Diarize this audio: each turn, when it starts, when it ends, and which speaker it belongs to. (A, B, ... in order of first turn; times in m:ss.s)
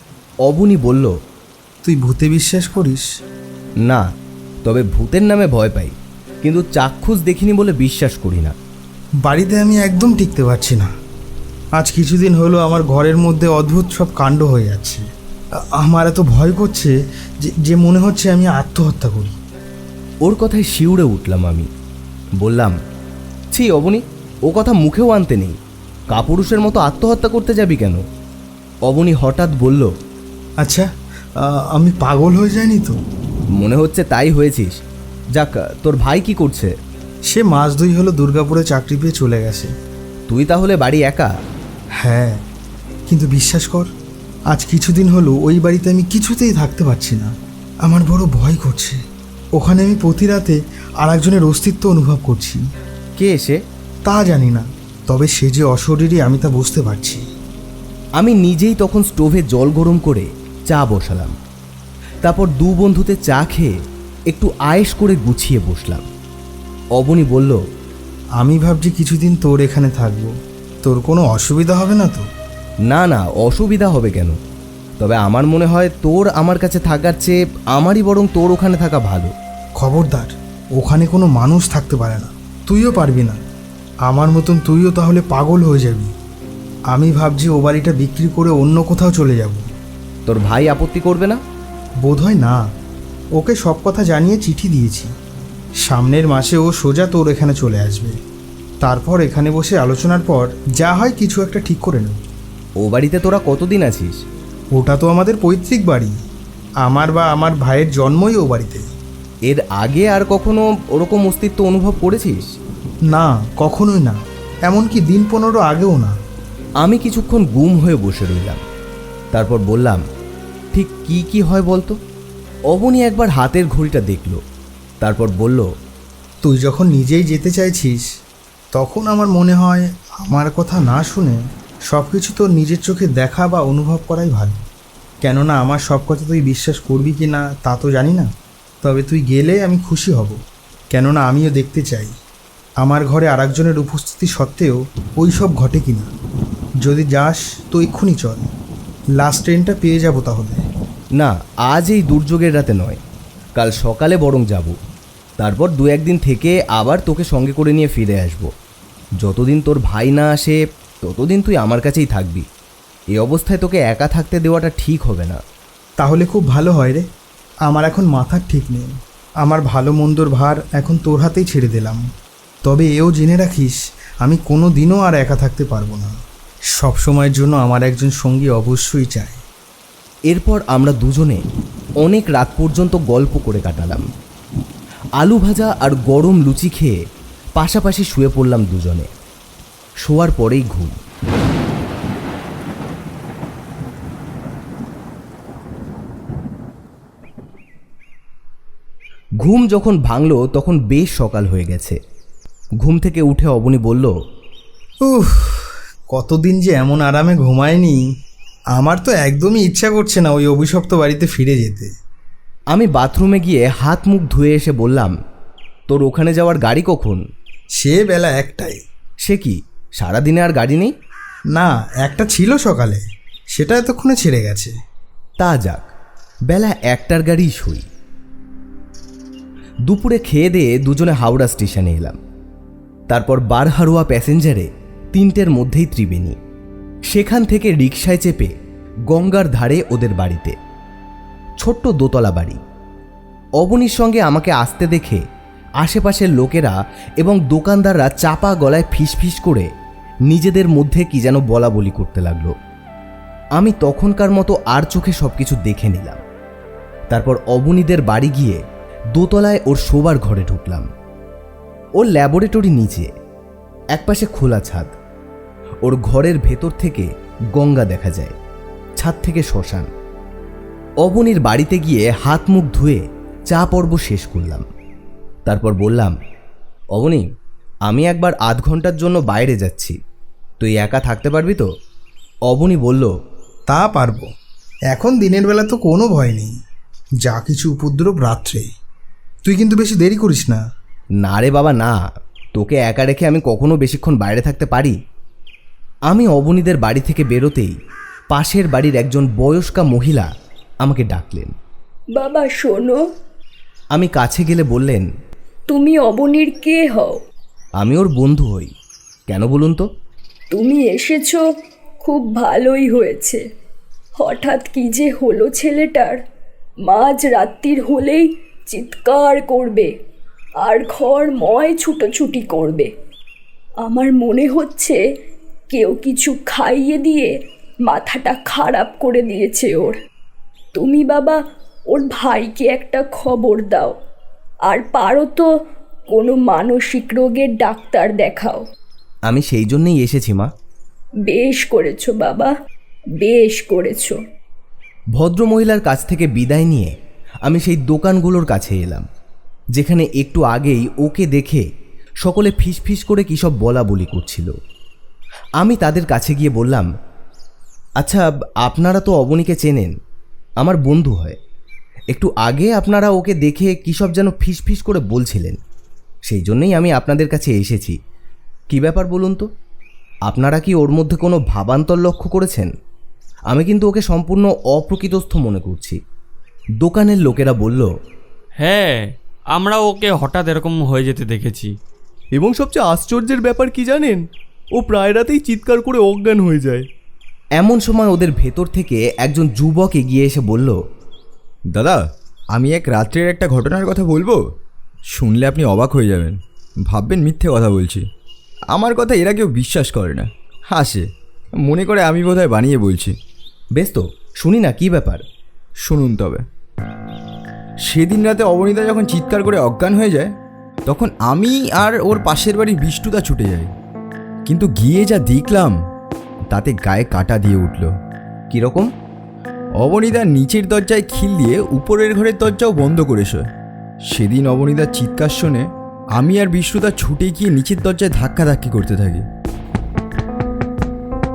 0:00.4-0:01.1 A
0:01.8-0:03.0 B
0:04.6-0:08.5 A
0:09.2-0:10.9 B
0:11.8-0:15.0 B
0:15.6-0:19.4 B
0:20.2-0:21.7 A
0:22.4-0:22.7 A
0:23.5-0:25.6 A
0:26.1-0:28.0 A
0:28.8-0:29.9 A
0:30.6-0:33.0 B
0:33.6-0:34.8 A
0:35.3-0:36.7 A
0:37.3-0:39.7 B
0:40.3-0:41.3 A
0:42.0-0:42.4 B
0:43.1-0:43.9 B
0:44.5-0:47.3 B
0:47.8-0:49.0 B
0:49.6-0:52.6 B
0:53.2-0:53.6 A
0:54.0-0:57.2 B
0:58.2-1:01.3 A
1:02.2-1:03.7 A
1:04.3-1:06.0 A
1:07.0-1:07.6 A
1:08.4-1:10.3 B
1:10.8-1:12.3 B
1:12.9-1:14.4 A
1:15.0-1:19.3 A
1:19.8-1:23.4 B
1:24.0-1:26.1 B
1:26.9-1:29.7 B
1:30.3-1:31.4 A
1:32.0-1:32.6 B
1:33.4-1:35.1 B
1:35.8-1:38.2 B
1:38.8-1:42.2 B
1:42.8-1:44.2 A
1:44.7-1:46.2 B
1:46.8-1:48.8 B
1:49.5-1:52.5 A
1:53.1-1:56.1 B
1:56.8-1:58.6 A
1:59.3-2:00.0 A
2:00.7-2:02.0 A
2:02.7-2:04.4 A
2:05.0-2:05.7 A
2:06.4-2:08.0 B
2:08.7-2:14.6 B
2:15.2-2:18.3 B
2:18.8-2:20.4 B
2:20.9-2:22.1 B
2:22.8-2:26.1 B
2:26.8-2:28.5 B
2:29.2-2:30.6 B
2:31.2-2:33.0 A
2:33.6-2:34.8 A
2:35.4-2:38.5 A
2:39.2-2:42.4 A
2:43.1-2:45.4 A
2:46.0-2:47.0 B
2:47.7-2:48.9 B
2:49.4-2:52.0 B
2:52.6-2:56.1 B
2:56.8-2:59.4 B
3:00.3-3:01.4 A
3:02.0-3:04.0 A
3:05.2-3:07.0 A
3:07.6-3:09.1 A
3:10.0-3:11.0 A
3:19.4-3:22.0 A
3:22.8-3:24.1 A
3:25.0-3:28.0 B
3:28.7-3:31.9 B
3:32.7-3:35.1 A
3:35.9-3:37.2 A
3:37.8-3:38.8 B
3:39.2-3:40.9 A
3:41.5-3:43.0 B
3:43.5-3:44.7 B
3:45.4-3:45.9 A
3:46.5-3:47.8 A
3:49.9-3:52.2 A
3:53.1-3:56.4 A
3:57.1-3:58.5 A
3:59.1-4:00.6 A
4:01.6-4:02.6 A
4:03.6-4:05.2 A
4:05.8-4:09.7 A
4:10.3-4:12.5 A
4:13.6-4:16.2 A
4:17.1-4:18.6 A
4:19.1-4:20.8 A
4:22.0-4:23.1 A
4:23.9-4:24.9 A
4:25.8-4:28.3 A
4:29.0-4:29.9 A
4:31.0-4:34.7 A
4:35.5-4:36.1 A
4:36.9-4:37.2 A
4:37.9-4:40.0 A
4:40.6-4:41.7 A
4:42.5-4:43.1 A
4:43.7-4:44.3 B
4:44.9-4:46.5 B
4:47.2-4:48.7 B
4:49.4-4:50.6 B
4:51.2-4:52.0 A
4:52.5-4:54.9 A
4:56.1-4:57.7 A
4:58.3-5:00.3 A
5:00.8-5:01.5 A
5:02.2-5:03.0 C
5:03.9-5:05.1 A
5:05.7-5:07.1 C
5:07.8-5:08.7 A
5:09.3-5:09.8 A
5:10.5-5:11.4 C
5:12.0-5:13.4 C
5:14.2-5:16.2 C
5:16.8-5:19.9 C
5:20.6-5:22.9 C
5:23.8-5:25.0 C
5:25.7-5:27.3 C
5:27.9-5:30.0 C
5:30.7-5:31.4 C
5:31.9-5:33.9 C
5:34.7-5:35.5 C
5:36.1-5:38.6 C
5:39.3-5:40.5 A
5:41.3-5:42.5 C
5:43.2-5:44.2 C
5:45.1-5:46.9 A
5:47.4-5:49.0 A
5:49.8-5:51.6 A
5:52.2-5:54.5 A
5:55.6-5:56.9 A
5:58.0-5:59.9 A
6:00.6-6:01.4 A
6:02.1-6:05.6 A
6:06.3-6:08.0 A
6:08.7-6:09.5 A
6:10.3-6:12.7 A
6:13.5-6:16.0 A
6:16.8-6:17.9 A
6:18.6-6:19.0 D
6:19.5-6:21.7 D
6:22.3-6:26.8 E
6:27.6-6:30.8 A
6:31.7-6:32.0 F
6:32.5-6:34.4 F
6:35.1-6:36.4 F
6:36.9-6:38.0 F
6:38.7-6:41.0 F
6:41.6-6:43.1 F
6:43.8-6:45.2 A
6:45.8-6:46.4 F
6:47.8-6:50.3 F
6:50.9-6:53.7 F
6:54.5-6:55.8 F
6:56.5-6:57.9 F
6:58.5-6:58.9 A
6:59.8-7:03.4 F
7:04.1-7:09.2 F